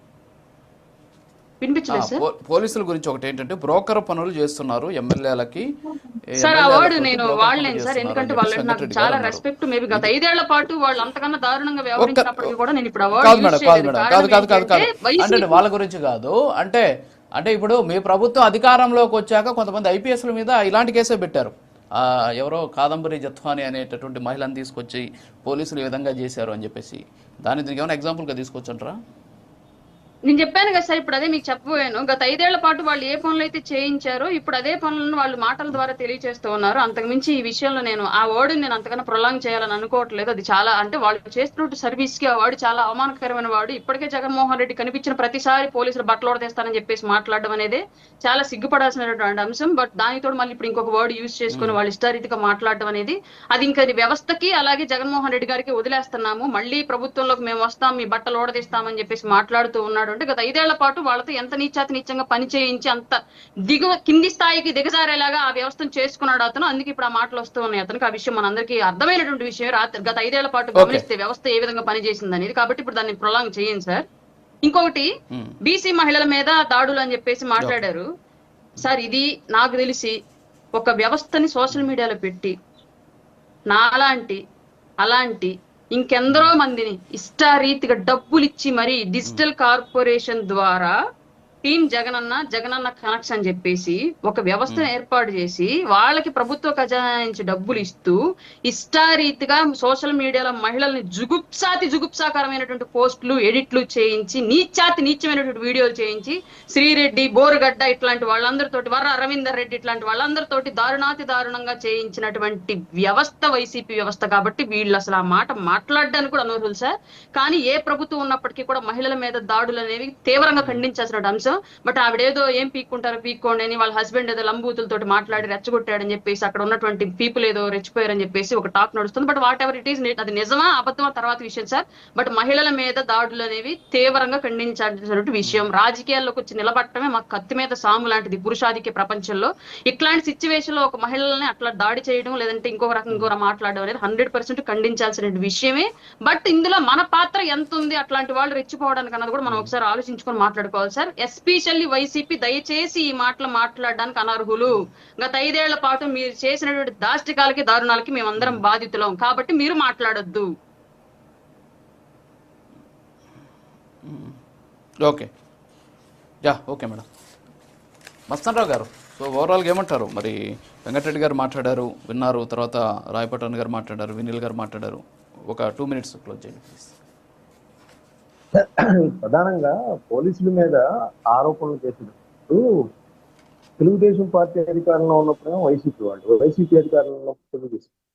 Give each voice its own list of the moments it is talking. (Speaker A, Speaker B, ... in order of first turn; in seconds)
Speaker A: 1.6-2.2, 5.9-15.6, 30.3-74.0, 74.7-75.1, 75.7-78.0, 78.8-80.1, 80.8-82.5, 83.7-84.4, 85.0-90.9, 91.7-98.2, 98.7-160.5
Speaker B: 1.9-5.7, 6.4-10.1, 12.0-12.5, 13.2-16.8, 17.4-29.0, 51.5-51.8, 70.8-71.0, 86.3-86.5, 149.5-149.7, 164.1-164.4, 166.4-167.0, 168.3-176.9
Speaker C: 178.5-182.8, 183.8-187.9